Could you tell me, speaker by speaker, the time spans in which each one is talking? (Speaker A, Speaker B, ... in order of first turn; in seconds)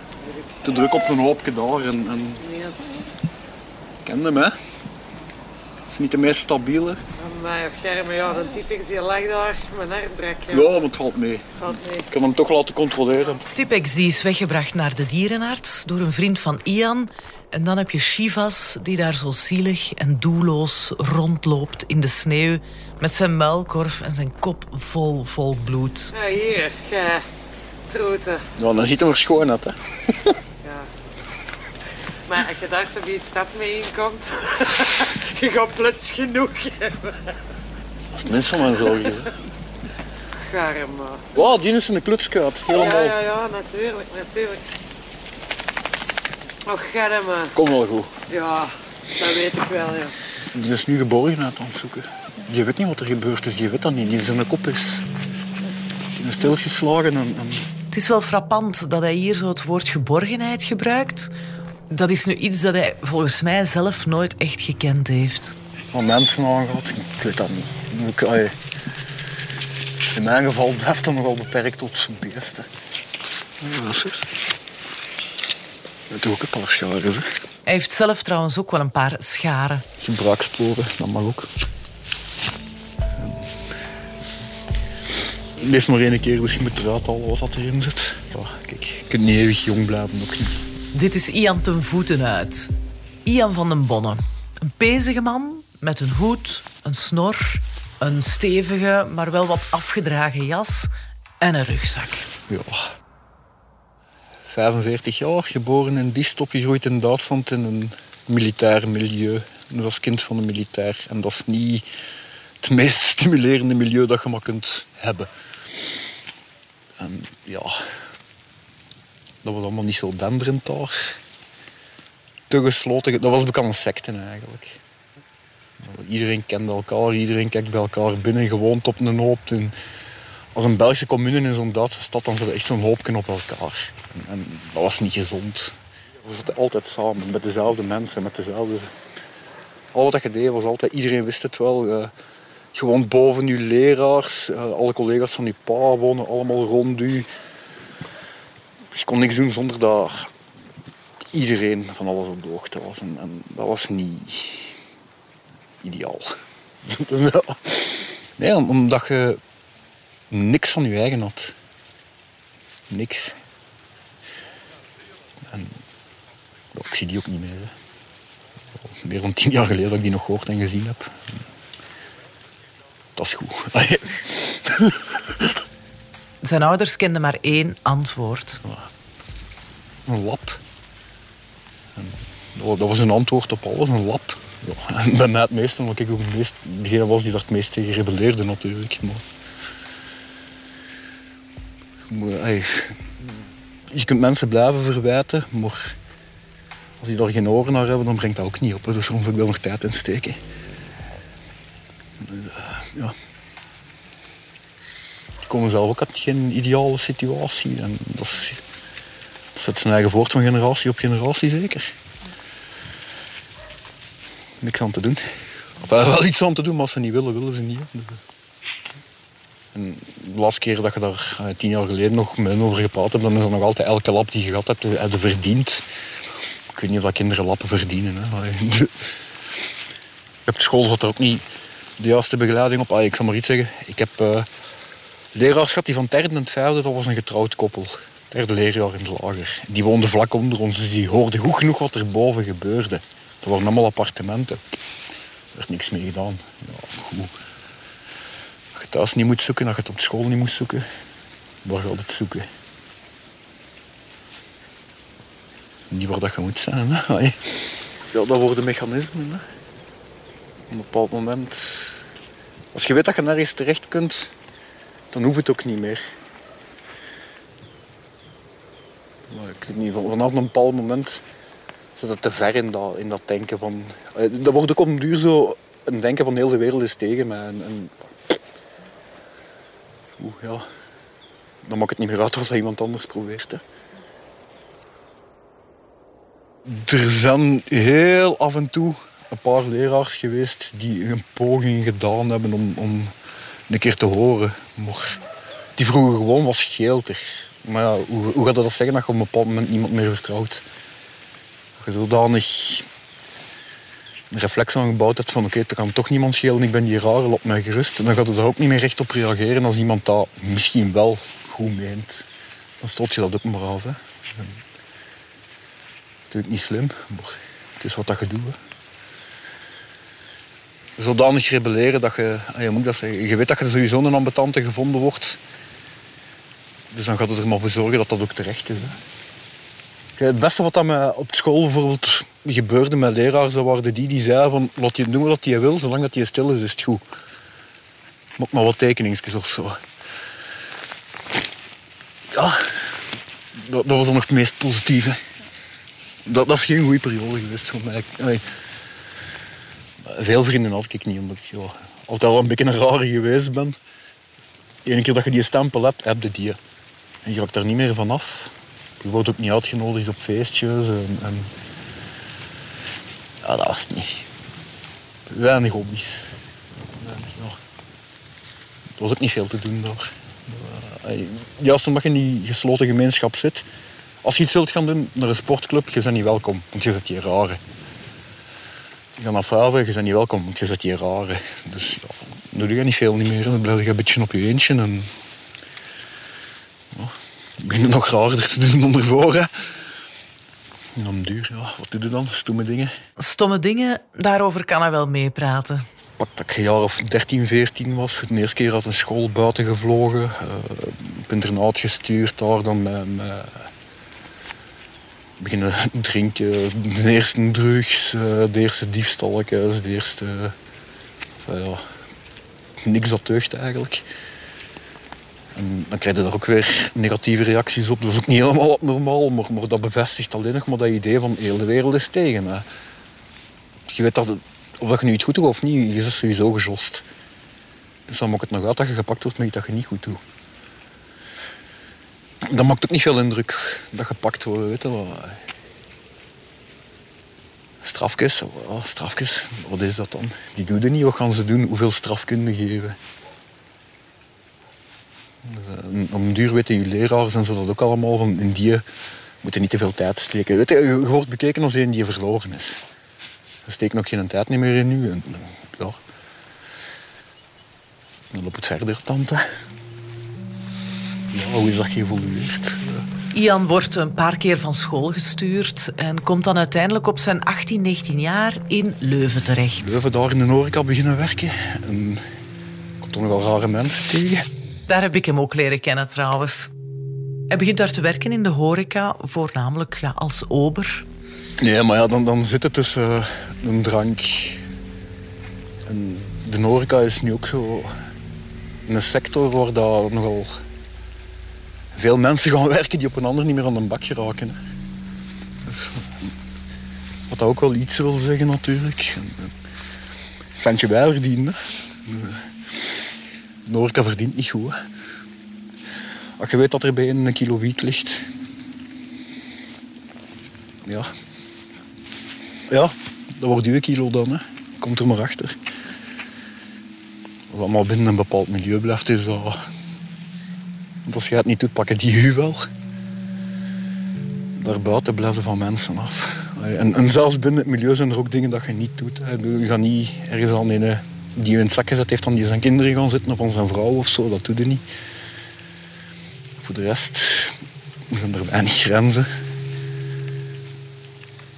Speaker A: 0.2-0.7, 2.4-2.9, 7.2-10.7, 11.6-12.1, 26.1-27.2, 27.9-28.5, 30.6-30.9, 32.2-37.4, 38.7-39.2, 40.3-41.4, 42.7-44.6, 46.6-47.6, 48.3-50.1
Speaker B: 0.6-2.4, 4.0-4.6, 5.9-7.0, 10.5-13.4, 28.6-30.4, 38.1-39.3, 41.3-43.2, 47.5-48.1, 50.5-55.0, 56.1-57.7, 65.9-68.5, 70.1-72.7, 73.6-74.4, 76.1-77.2, 80.0-81.5, 83.2-83.5, 85.5-90.6, 102.5-102.9, 104.5-111.8, 112.6-115.3, 117.0-117.8, 119.4-121.2, 122.5-124.8, 125.8-129.7, 130.5-138.9, 139.9-142.1, 142.7-147.3, 148.9-150.3, 151.3-154.8, 155.8-159.4, 160.3-161.6, 162.9-163.4, 165.4-165.8, 166.7-167.7, 168.7-171.4, 173.2-175.6, 180.1-180.6, 181.9-189.2, 192.1-196.0, 197.0-200.4, 202.2-203.1, 205.4-208.6, 209.5-211.9, 214.6-218.2, 219.7-225.8, 226.7-229.2, 230.4-231.4, 232.0-234.5, 235.3-244.7, 245.5-247.3, 248.7-250.8, 251.6-252.5, 255.9-259.4, 260.7-262.1, 262.7-264.3, 265.1-266.0, 269.3-271.2, 271.9-278.4, 280.2-280.6, 281.6-283.6, 286.6-293.1, 293.7-295.2, 295.8-300.6, 301.8-302.9, 304.3-312.2, 312.8-314.6, 316.3-318.6, 321.0-325.4, 326.9-329.0, 330.2-337.0, 338.4-339.8, 342.3-345.2, 346.2-348.5, 350.0-353.8, 354.8-356.6, 357.2-361.5, 363.4-364.3, 365.3-366.2, 366.9-367.6, 369.0-373.7, 374.2-377.6, 379.2-385.1, 386.9-389.7, 390.9-392.9, 396.2-403.7, 405.4-410.5, 411.4-411.8, 412.8-414.1, 415.5-422.6, 423.9-427.0, 428.1-430.2, 432.4-435.4, 437.8-443.0, 445.4-448.8, 449.4-452.8, 453.6-456.0, 458.3-459.5, 461.3-463.1, 469.8-472.2, 473.0-474.5, 481.6-484.6, 485.9-487.9, 488.9-490.6, 491.9-494.6, 495.6-496.3, 497.3-499.5, 500.6-503.0, 503.6-504.8, 506.4-508.3, 510.8-511.1, 512.7-515.6, 517.5-519.6, 521.0-522.7, 524.5-534.8, 536.6-539.3
Speaker C: 13.5-26.1, 57.9-61.3, 61.9-65.5, 77.7-79.8, 90.9-92.7, 93.2-102.3, 176.4-178.6, 393.2-395.9, 463.3-470.0, 474.9-476.7, 477.5-481.1